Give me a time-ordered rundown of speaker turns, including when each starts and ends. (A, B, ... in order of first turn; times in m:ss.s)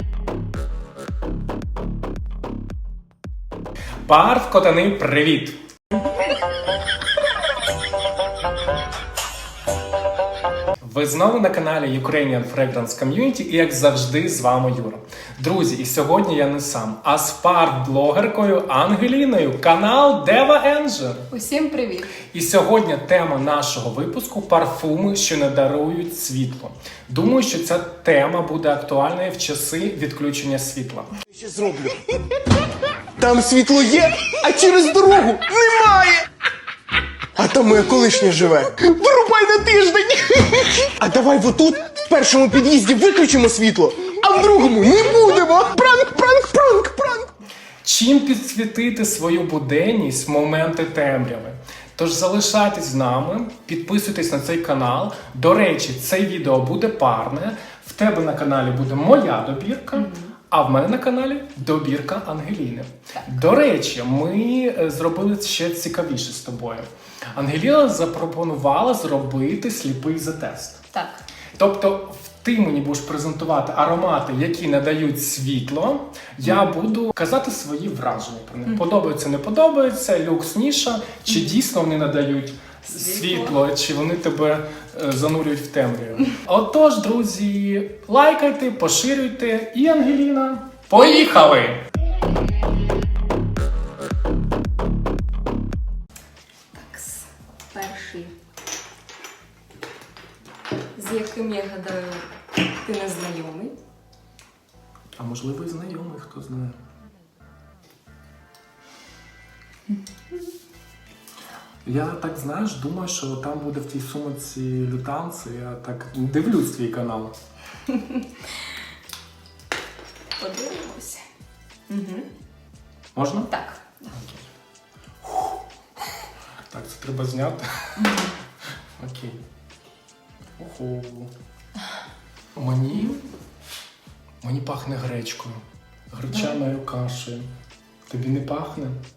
0:04.0-0:05.6 A
0:10.8-0:21.3 A
0:21.3-0:22.2 B
0:22.3-0:31.1 A
0:31.3-0:32.0 C
0:33.2-0:36.3 C
0:37.4-0:47.3 C
0:47.8-1:10.8 A
0:59.9-1:00.3 B
1:10.9-1:11.2 B
1:11.6-1:31.8 A
1:21.2-1:21.5 B
1:22.8-1:23.6 B
1:36.7-1:38.3 B
1:40.9-1:42.3 B
1:42.8-1:43.7 B
1:45.2-1:46.8 A
1:51.8-1:57.3 A
1:57.8-1:58.4 B
2:00.4-2:01.2 B
2:01.9-2:02.3 B
2:03.1-2:03.5 A
2:03.5-2:04.1 B
2:04.1-2:04.4 A
2:05.2-2:05.6 A
2:06.7-2:08.0 A
2:08.0-2:08.4 B
2:09.0-2:09.4 A
2:10.6-2:11.3 A
2:12.6-2:13.2 A
2:12.9-2:13.2 B
2:14.4-2:17.5 A
2:16.3-2:16.6 B
2:18.1-2:19.0 A